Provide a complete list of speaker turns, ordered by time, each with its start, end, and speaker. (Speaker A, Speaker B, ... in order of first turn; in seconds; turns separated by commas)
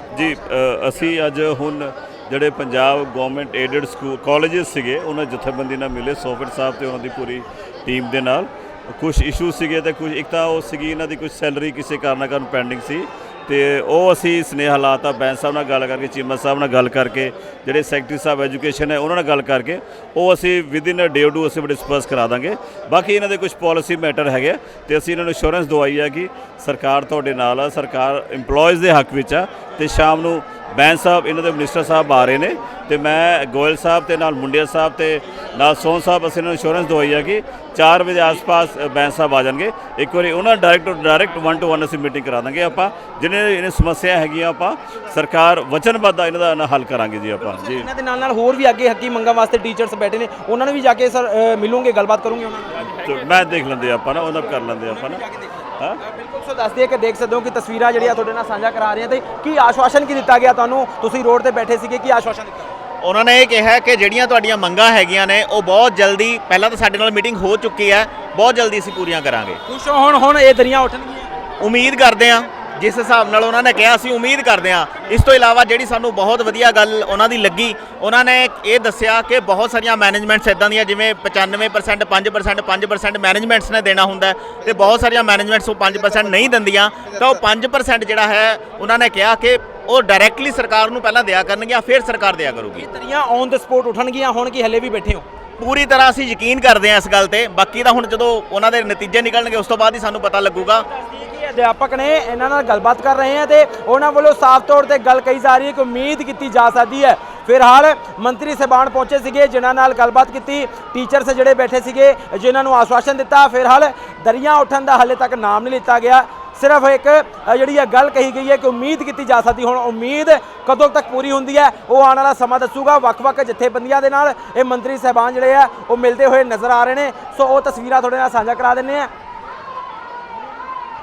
Speaker A: 0.1-47.9, Speaker B: 47.4-53.4, Speaker A: 53.0-55.2, Speaker B: 54.8-62.8, Speaker C: 63.0-69.6, Speaker B: 69.7-71.3, Speaker C: 71.6-92.8, Speaker B: 87.2-87.4, Speaker B: 92.7-95.2, Speaker C: 95.6-100.8, Speaker B: 100.6-129.1